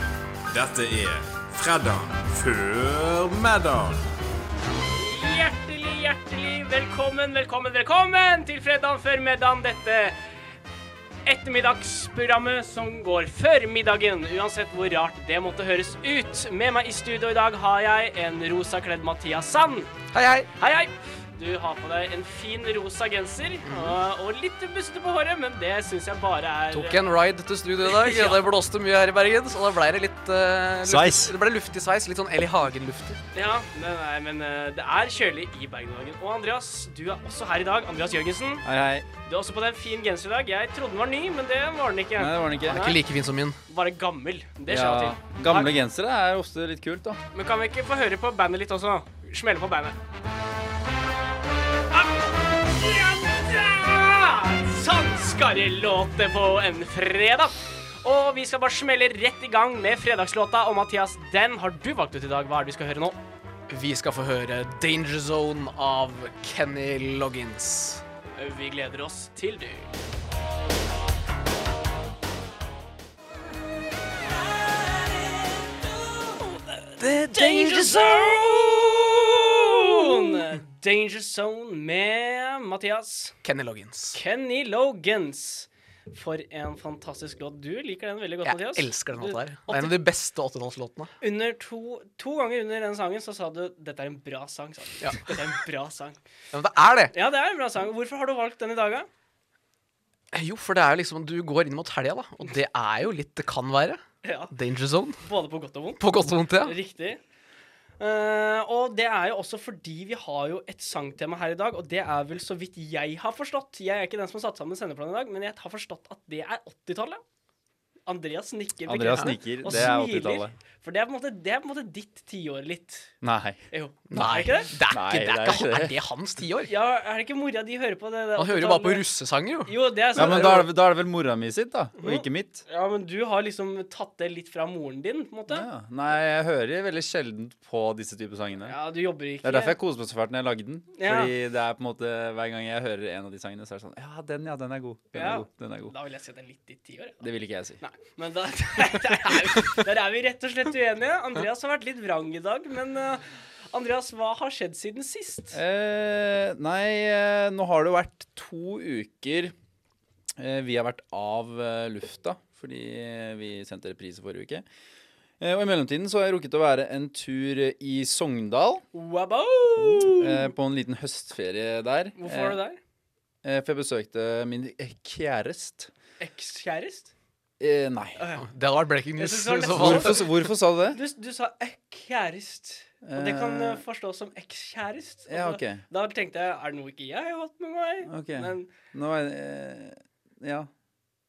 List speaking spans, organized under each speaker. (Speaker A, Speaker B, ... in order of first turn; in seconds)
Speaker A: 0.5-4.1
Speaker B: 4.9-10.2, 11.2-19.9, 20.6-27.1, 27.8-28.4, 33.3-38.6, 39.2-43.0, 43.7-45.7, 47.3-50.0, 51.9-63.2, 68.4-69.9, 74.9-83.3, 84.1-90.0, 91.2-96.2, 97.1-99.1, 104.2-104.5, 105.2-106.0, 106.6-107.2, 108.0-117.2, 118.0-123.1, 123.7-124.8, 126.7-129.0, 129.7-130.7, 132.0-135.7, 138.7-139.8, 140.9-141.3, 145.1-147.2, 147.8-155.6, 168.9-170.5, 172.2-172.8, 176.2-177.1, 178.2-178.4, 179.2-180.3, 180.9-188.7
Speaker C: 20.1-20.5, 23.6-24.0, 26.7-33.2, 42.6-43.6, 63.7-68.0, 77.0-78.8, 79.6-80.4, 83.4-84.2, 88.4-91.1, 95.0-95.3, 96.5-97.1, 100.3-105.2, 106.0-106.7, 124.1-126.7, 128.4-130.3, 178.4-180.3
Speaker D: 30.8-31.3, 38.6-39.0, 42.2-42.8, 44.7-47.2, 118.8-120.5, 123.2-123.6, 124.9-126.0, 130.2-132.6, 135.5-138.8, 139.4-145.9, 147.2-147.8, 155.5-159.5, 160.4-164.6, 165.4-168.8, 170.1-172.6, 173.4-175.9, 177.6-178.2, 179.7-181.0, 183.0-183.8, 185.3-185.8, 188.1-190.7